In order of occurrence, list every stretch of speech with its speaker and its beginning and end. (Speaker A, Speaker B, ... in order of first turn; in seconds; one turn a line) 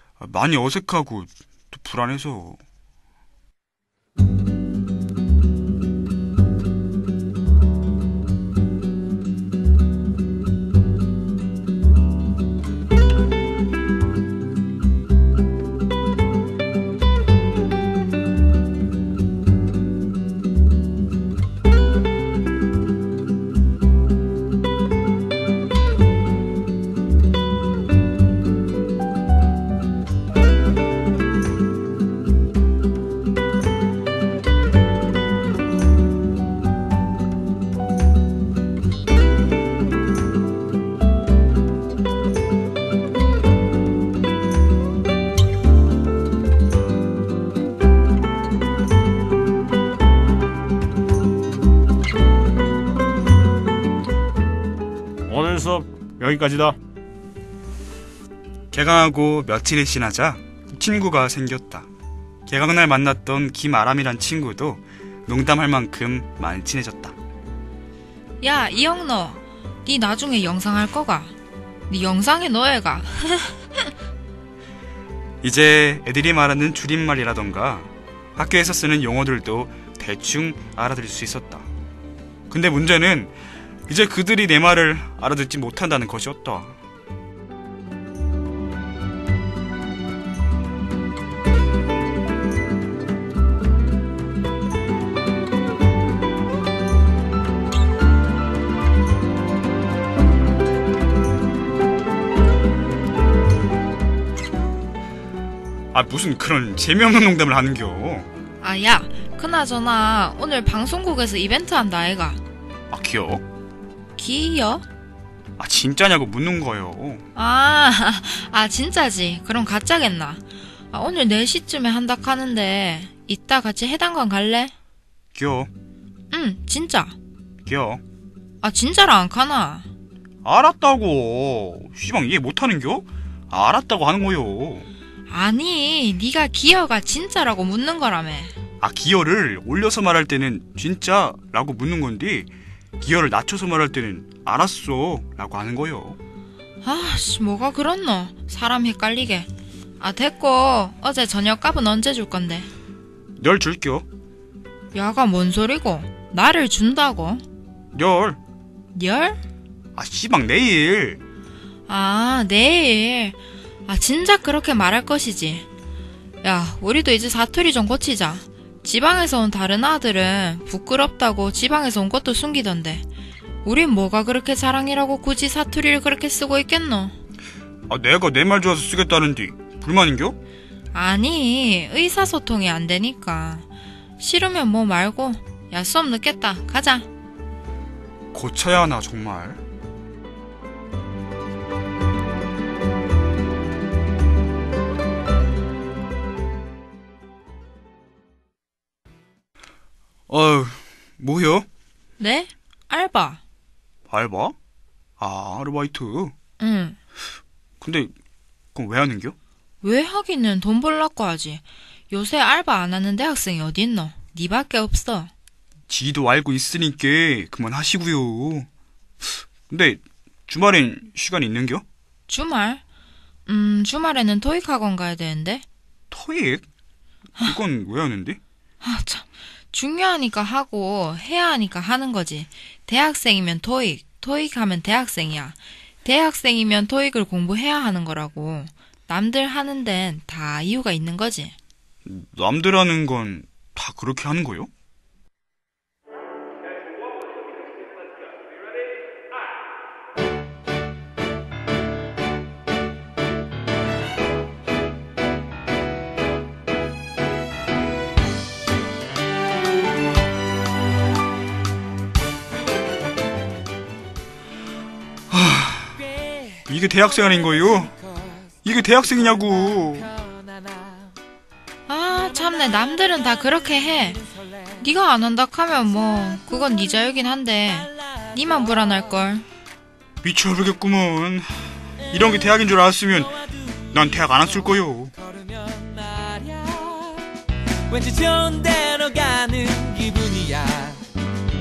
Speaker A: 0.2-2.6
Speaker B: 55.2-56.8
Speaker A: 58.7-61.9
Speaker A: 62.5-67.2
Speaker C: 68.4-71.3
Speaker C: 71.9-73.9
Speaker A: 75.4-81.7
Speaker A: 82.5-86.8
Speaker A: 105.9-108.3
Speaker C: 108.6-112.4
Speaker A: 112.9-113.4
Speaker C: 114.2-114.8
Speaker A: 115.6-117.2
Speaker C: 117.3-124.7
Speaker A: 125.3-125.7
Speaker C: 126.3-127.1
Speaker A: 127.6-128.0
Speaker C: 128.6-129.9
Speaker A: 130.4-134.9
Speaker C: 135.3-138.5
Speaker A: 138.8-146.2
Speaker C: 146.8-149.5
Speaker C: 150.0-152.7
Speaker A: 153.4-154.1
Speaker C: 154.9-157.4
Speaker A: 157.9-158.4
Speaker C: 158.9-159.4
Speaker A: 159.9-161.2
Speaker C: 161.9-165.7
Speaker C: 166.4-173.1
Speaker C: 173.6-177.1
Speaker A: 177.9-180.3
Speaker C: 180.9-183.7
Speaker C: 184.2-187.1
Speaker A: 188.3-189.6
Speaker A: 200.3-201.7
Speaker C: 202.2-203.4
Speaker A: 204.1-204.6
Speaker A: 205.2-206.3
Speaker C: 206.6-207.0
Speaker A: 207.8-208.1
Speaker A: 208.7-209.3
Speaker C: 209.8-215.3
Speaker A: 215.9-218.7
Speaker A: 219.7-221.8
Speaker C: 222.3-222.8
Speaker C: 223.5-225.6
Speaker A: 226.1-226.6
Speaker A: 227.4-228.4
Speaker C: 228.8-241.5
Speaker A: 242.0-244.7
Speaker A: 265.3-266.1
Speaker A: 266.7-267.9
Speaker A: 268.6-270.1
Speaker C: 271.9-274.2
Speaker C: 274.8-279.4
Speaker A: 280.2-285.1
Speaker B: 285.6-287.2
Speaker B: 287.9-291.0